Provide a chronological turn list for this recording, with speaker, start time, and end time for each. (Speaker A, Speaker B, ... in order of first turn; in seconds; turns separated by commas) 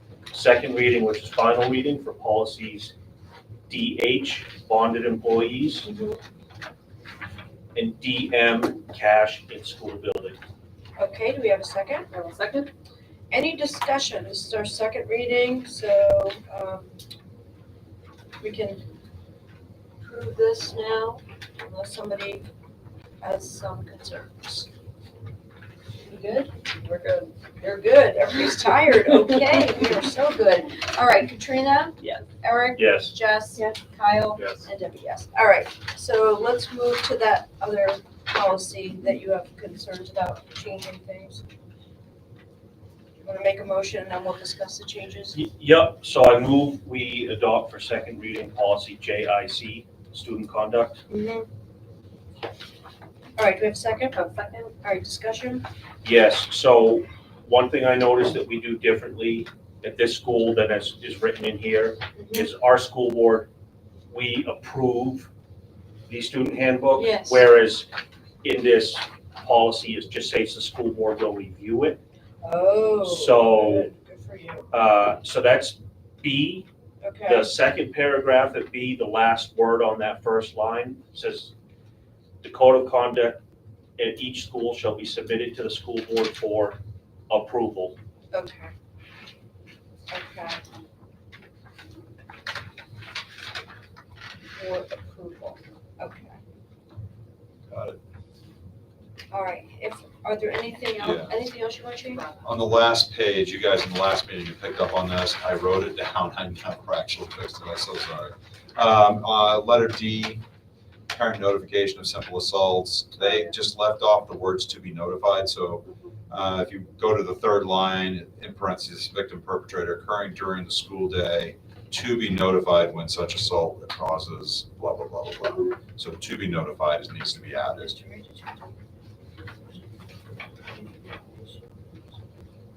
Speaker A: 0.3-2.9, Speaker A: 3.7-5.9, Speaker B: 5.8-6.2, Speaker A: 7.7-10.4, Speaker B: 11.0-12.1, Speaker C: 12.1-12.7, Speaker B: 13.3-16.9, Speaker B: 18.4-18.8, Speaker B: 20.0-22.5, Speaker B: 23.2-24.7, Speaker B: 26.0-26.5, Speaker C: 26.9-27.3, Speaker B: 27.6-41.4, Speaker A: 32.7-33.1, Speaker B: 43.2-45.4, Speaker A: 45.3-51.0, Speaker B: 51.1-51.5, Speaker B: 53.4-54.2, Speaker C: 54.1-54.7, Speaker B: 54.8-55.6, Speaker A: 56.0-63.5, Speaker B: 62.2-62.5, Speaker A: 64.1-65.3, Speaker A: 66.1-67.8, Speaker B: 66.9-67.4, Speaker A: 68.4-72.0, Speaker B: 72.4-74.7, Speaker A: 73.0-73.9, Speaker A: 74.7-76.7, Speaker B: 77.0-77.5, Speaker A: 77.2-81.5, Speaker A: 82.4-83.4, Speaker A: 84.0-86.8, Speaker A: 87.3-87.9, Speaker B: 88.3-88.7, Speaker B: 90.1-90.6, Speaker B: 94.5-96.3, Speaker D: 97.7-98.0, Speaker B: 99.3-102.3, Speaker D: 101.0-101.3, Speaker D: 102.4-110.4, Speaker D: 111.1-127.9, Speaker C: 115.8-116.1, Speaker B: 127.8-128.7, Speaker B: 130.7-131.6